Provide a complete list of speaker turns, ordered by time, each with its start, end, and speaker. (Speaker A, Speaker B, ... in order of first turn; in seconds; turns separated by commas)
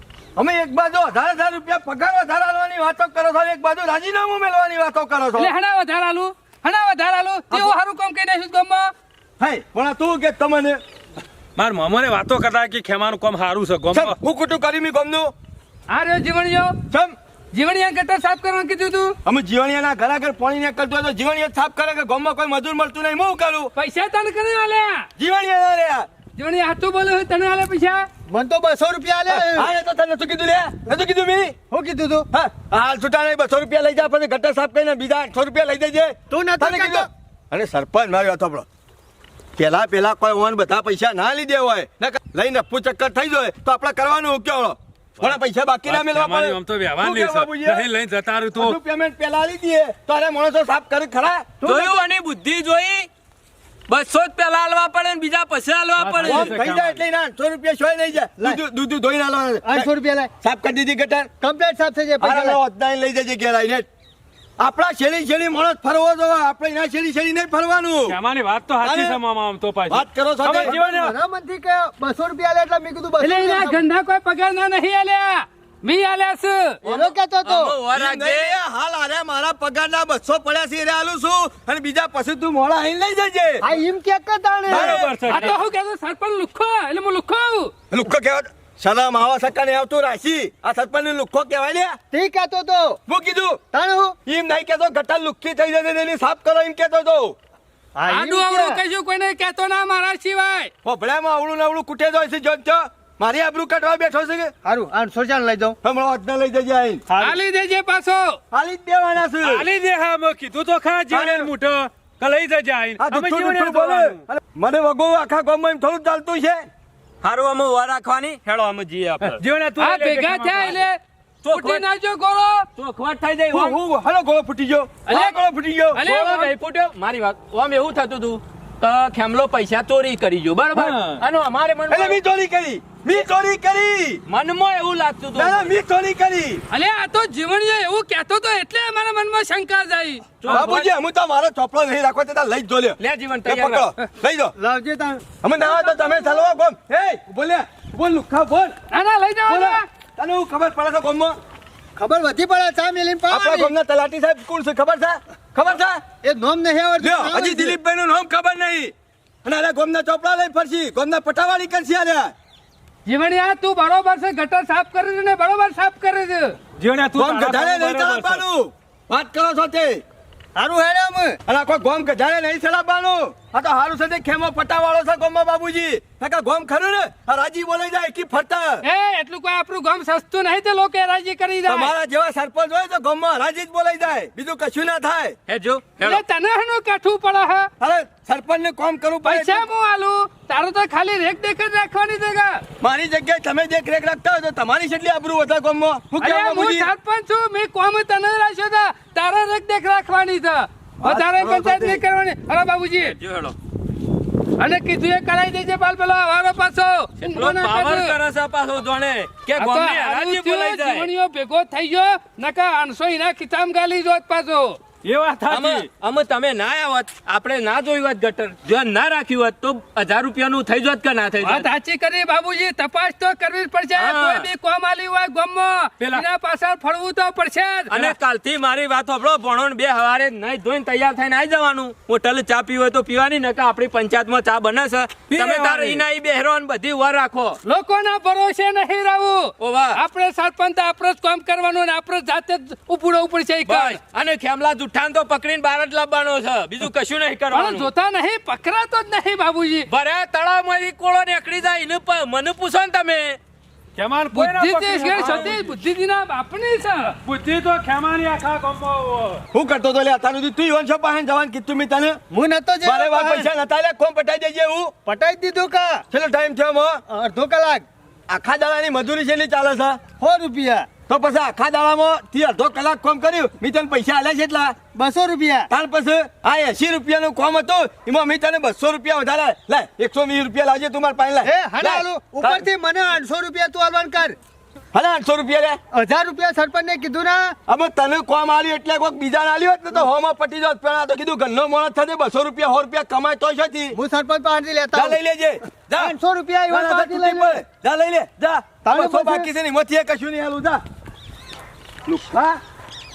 Speaker A: 0.3-5.5, Speaker B: 5.3-8.9, Speaker A: 9.4-10.8, Speaker C: 11.6-14.2, Speaker A: 13.9-15.3, Speaker B: 15.9-16.8, Speaker A: 16.9-17.1, Speaker B: 17.5-19.1, Speaker A: 19.2-23.7, Speaker B: 23.7-25.1, Speaker A: 25.2-26.1, Speaker B: 26.4-28.1, Speaker D: 28.3-29.7, Speaker A: 29.3-31.6, Speaker D: 31.7-32.3, Speaker A: 32.3-38.6, Speaker D: 36.3-37.1, Speaker A: 39.5-47.9, Speaker C: 45.9-48.8, Speaker A: 48.5-51.5, Speaker D: 51.6-52.0, Speaker E: 51.6-53.1, Speaker E: 53.9-56.6, Speaker C: 56.0-57.0, Speaker A: 56.2-59.9, Speaker D: 59.6-60.3, Speaker A: 60.4-61.3, Speaker D: 61.4-62.6, Speaker A: 62.2-63.9, Speaker A: 64.6-68.2, Speaker C: 68.1-71.1, Speaker A: 68.8-69.2, Speaker A: 69.9-70.8, Speaker D: 70.5-73.8, Speaker B: 73.2-76.8, Speaker D: 76.8-77.8, Speaker E: 76.8-78.6, Speaker A: 77.9-83.7, Speaker D: 83.6-85.2, Speaker A: 84.7-85.3, Speaker C: 84.7-85.6, Speaker B: 85.2-87.7, Speaker A: 87.9-92.0, Speaker D: 92.1-93.0, Speaker A: 93.1-93.6, Speaker D: 93.7-94.2, Speaker A: 94.2-97.3, Speaker D: 97.9-98.8, Speaker B: 98.1-100.7, Speaker A: 100.8-104.5, Speaker D: 104.6-105.8, Speaker A: 105.8-107.0, Speaker D: 107.1-107.4, Speaker B: 107.2-108.4, Speaker A: 108.5-109.7, Speaker C: 109.4-114.2, Speaker A: 111.1-111.5, Speaker A: 113.0-116.7, Speaker E: 117.2-119.4, Speaker C: 119.2-120.8, Speaker B: 119.8-121.0, Speaker E: 121.4-121.8, Speaker B: 121.5-122.7, Speaker E: 122.8-123.8, Speaker A: 123.5-126.0, Speaker E: 125.1-125.4, Speaker B: 125.1-125.3, Speaker B: 125.9-126.5, Speaker E: 126.0-132.2, Speaker C: 130.7-131.2, Speaker A: 131.9-134.2, Speaker E: 134.3-135.7, Speaker A: 135.3-136.6, Speaker B: 136.7-140.3, Speaker E: 140.4-140.9, Speaker A: 140.5-144.5, Speaker C: 140.5-140.8, Speaker E: 143.0-143.9, Speaker D: 144.6-146.4, Speaker A: 145.4-148.8, Speaker B: 148.9-149.8, Speaker A: 149.5-151.3, Speaker D: 152.0-153.7, Speaker A: 153.3-156.0, Speaker D: 156.2-157.8, Speaker A: 157.0-158.9, Speaker A: 159.4-162.3, Speaker B: 163.1-166.6, Speaker C: 166.8-168.4, Speaker A: 167.1-170.0, Speaker D: 170.6-171.4, Speaker A: 171.5-178.8, Speaker B: 178.8-181.9, Speaker A: 181.7-185.4, Speaker E: 185.5-186.2, Speaker B: 186.0-187.7, Speaker A: 187.8-189.7, Speaker B: 189.2-192.6, Speaker A: 192.8-196.9, Speaker B: 196.2-203.2, Speaker A: 201.0-202.0, Speaker E: 203.0-203.5, Speaker B: 204.6-208.2, Speaker E: 207.2-211.1, Speaker B: 209.6-214.8, Speaker C: 215.0-215.9, Speaker E: 215.5-221.7, Speaker B: 221.4-228.1, Speaker E: 223.9-224.5, Speaker E: 227.9-237.6, Speaker C: 235.3-236.0, Speaker B: 237.6-244.0, Speaker E: 239.6-240.0, Speaker E: 243.7-247.9, Speaker B: 247.5-249.9, Speaker E: 249.9-253.4, Speaker C: 253.9-255.7, Speaker B: 254.3-257.2, Speaker E: 255.1-255.4, Speaker C: 257.2-259.4, Speaker A: 259.5-262.2, Speaker D: 262.3-263.5, Speaker A: 262.8-264.9, Speaker D: 265.1-266.0, Speaker A: 266.1-267.0, Speaker D: 267.1-267.9, Speaker A: 268.3-270.0, Speaker D: 270.2-270.9, Speaker A: 271.1-274.8, Speaker D: 274.9-275.7, Speaker A: 275.7-282.6, Speaker D: 281.4-284.4, Speaker A: 284.9-285.8, Speaker D: 285.9-287.6, Speaker A: 287.7-294.0, Speaker D: 293.9-295.2, Speaker A: 294.9-296.1, Speaker D: 295.9-297.6, Speaker A: 296.7-300.8, Speaker D: 298.8-299.5, Speaker A: 302.1-302.6